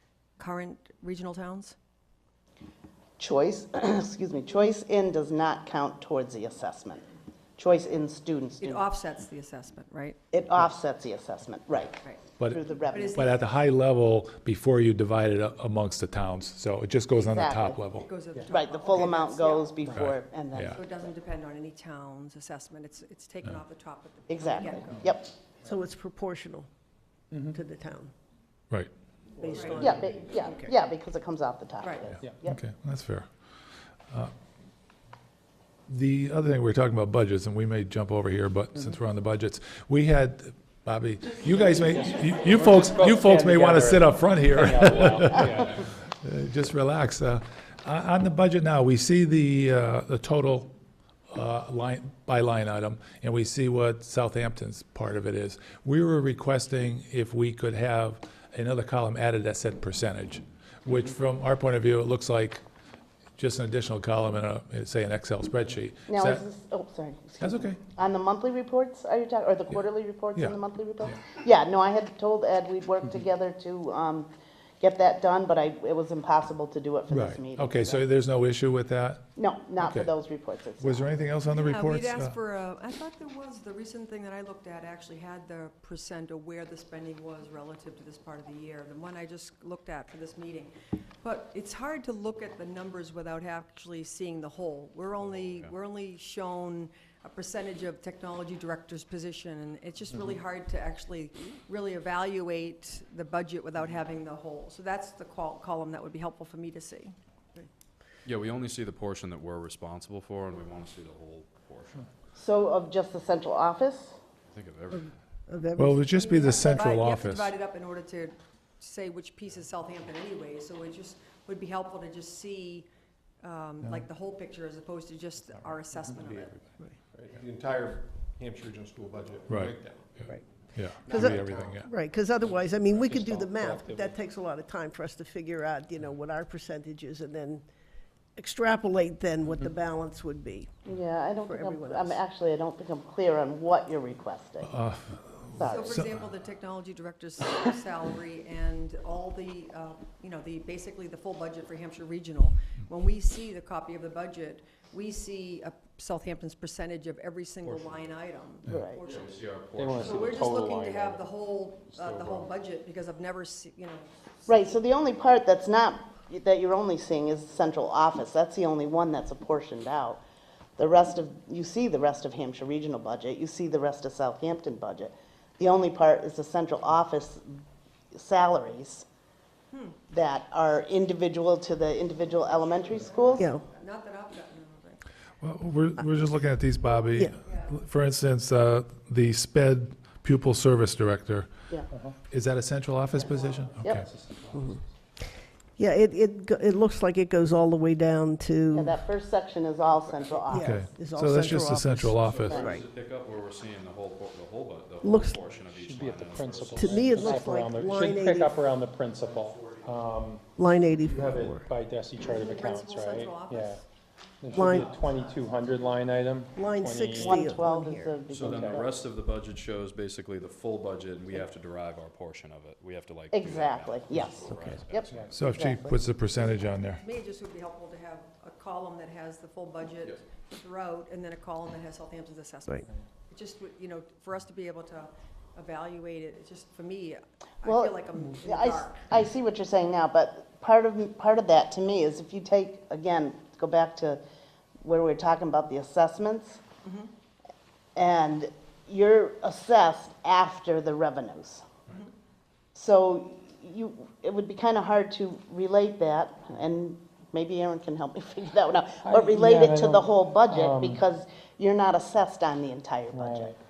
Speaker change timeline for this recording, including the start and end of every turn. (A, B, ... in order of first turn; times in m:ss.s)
0:00.4-0:01.8 A
0:03.2-0:07.0 B
0:07.6-0:08.8 B
0:08.6-0:10.2 A
0:10.3-0:13.3 B
0:12.9-0:13.4 A
0:13.1-0:18.1 C
0:17.1-0:17.8 B
0:18.0-0:19.8 A
0:18.5-0:21.0 B
0:19.9-0:20.8 C
0:20.7-0:25.1 A
0:24.3-0:25.3 B
0:25.6-0:26.7 D
0:27.4-0:28.1 D
0:29.4-0:30.7 D
0:29.5-0:29.8 A
0:29.8-0:32.6 B
0:31.8-0:32.1 A
0:32.4-0:33.3 C
0:35.9-0:50.7 C
0:42.9-0:45.6 E
0:51.3-1:02.6 C
1:03.4-1:06.4 C
1:06.1-1:14.3 B
1:07.4-1:07.8 C
1:14.8-1:18.0 B
1:17.1-1:19.3 C
1:19.4-1:21.2 B
1:19.8-1:20.1 C
1:20.8-1:22.3 C
1:21.5-1:47.2 A
1:35.2-1:35.7 F
1:48.2-1:52.1 F
1:52.3-1:54.2 B
1:54.4-1:55.1 F
1:54.9-1:56.3 D
1:55.8-1:57.5 C
1:56.1-2:02.9 A
2:03.4-2:06.6 A
2:06.2-2:06.5 G
2:07.1-2:10.2 G
2:09.5-2:09.8 C
2:10.7-2:11.8 G
2:10.7-2:11.9 C
2:11.0-2:17.7 D
2:13.2-2:14.0 E
2:18.4-2:20.8 D
2:20.8-2:24.8 B
2:21.4-2:22.2 D
2:24.7-2:26.2 C
2:25.6-2:26.0 B
2:25.6-2:39.3 A
2:37.6-2:38.1 F
2:38.7-2:39.0 B
2:39.0-2:40.5 F
2:39.8-2:41.2 E
2:40.0-2:44.8 A
2:42.0-2:42.5 E
2:44.5-2:50.2 B
2:50.8-2:59.0 B
2:59.7-3:00.0 A
3:00.1-3:03.5 B
3:02.3-3:05.0 A
3:03.4-3:03.6 D
3:05.4-3:11.5 C
3:07.0-3:07.3 D
3:07.4-3:07.8 A
3:11.9-3:12.2 E
3:12.3-3:14.7 C
3:13.3-3:13.7 A
3:13.9-3:14.5 E
3:15.8-3:19.0 D
3:18.7-3:21.0 B
3:20.1-3:20.4 F
3:20.5-3:22.8 D
3:20.6-3:22.6 C
3:22.2-3:27.6 F
3:22.4-3:22.7 B
3:25.0-3:25.4 D
3:25.8-3:30.4 E
3:26.7-3:28.6 D
3:29.2-3:29.8 F
3:30.6-3:31.6 D
3:31.2-3:33.8 E
3:32.2-3:33.8 A
3:34.4-3:37.2 E
3:34.5-3:34.9 D
3:34.7-3:35.2 A
3:36.5-3:38.3 D
3:37.1-3:39.0 B
3:38.3-3:45.3 F
3:43.3-3:46.0 B
3:45.3-3:47.0 C
3:46.8-3:59.1 A
3:57.6-4:04.2 B
4:04.8-4:06.6 B
4:06.8-4:07.1 A
4:08.0-4:11.6 B
4:12.7-4:23.5 B
4:19.0-4:21.0 E
4:23.1-4:23.5 E